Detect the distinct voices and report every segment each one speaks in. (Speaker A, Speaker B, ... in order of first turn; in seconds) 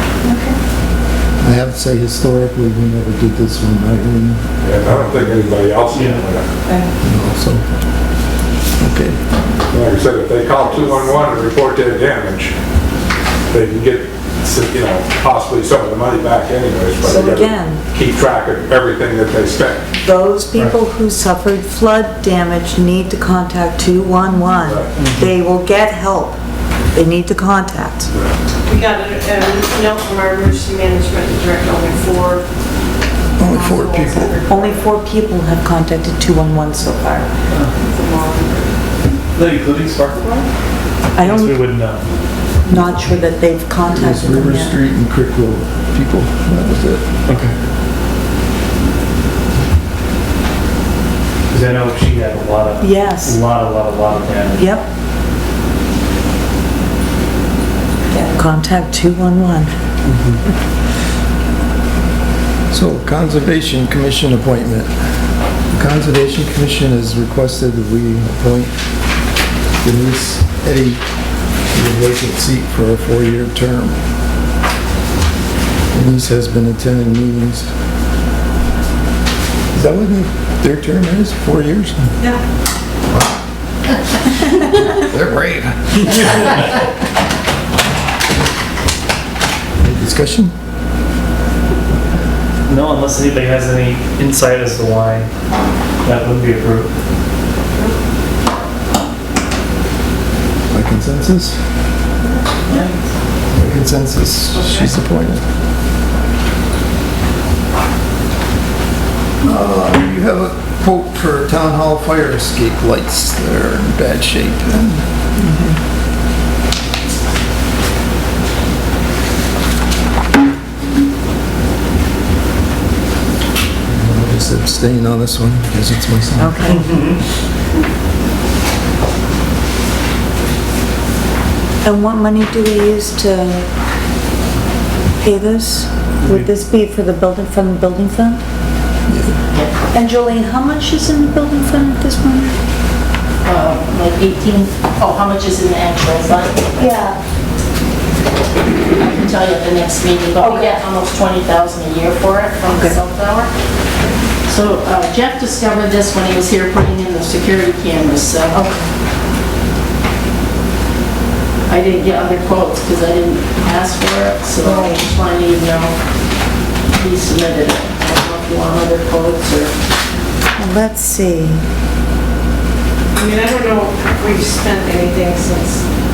Speaker A: 0.2-0.6, 17.0-17.8, 20.0-26.4, 26.9-28.1, 33.5-37.3, 41.1-41.6, 42.6-44.7, 52.8-53.4, 54.6-54.9, 58.1-59.7, 115.4-115.8, 126.4-127.0, 131.8-133.7, 135.2-138.4, 139.9-142.5, 146.8-147.2, 150.4-150.8, 152.7-153.0, 158.5-158.9, 164.6-165.0, 170.6-171.6
Speaker B: 1.4-5.6, 7.0-7.6, 8.8-9.2, 33.4-34.4, 43.9-47.5, 62.7-64.9, 65.7-68.7, 69.8-71.0, 71.7-74.0, 75.9-77.7, 79.7-82.1, 83.1-83.3, 84.5-86.7, 89.8-90.5, 100.7-101.6, 103.5-105.4, 109.4-115.0, 123.9-126.6, 139.1-139.3
Speaker C: 4.6-6.5, 9.7-12.5, 13.5-19.9
Speaker D: 5.9-6.2, 25.0-25.3, 39.3-40.5, 41.2-42.0, 47.3-47.5, 51.5-54.7, 60.0-60.4, 92.7-95.3, 96.0-96.9, 102.7-103.0, 126.7-127.2, 136.2-136.5
Speaker E: 28.7-32.5, 33.6-34.8, 37.8-38.7, 102.2-102.9, 104.5-104.9, 173.1-175.8
Speaker F: 143.4-146.7, 149.0-153.5, 154.4-158.6, 161.7-165.9, 166.9-169.7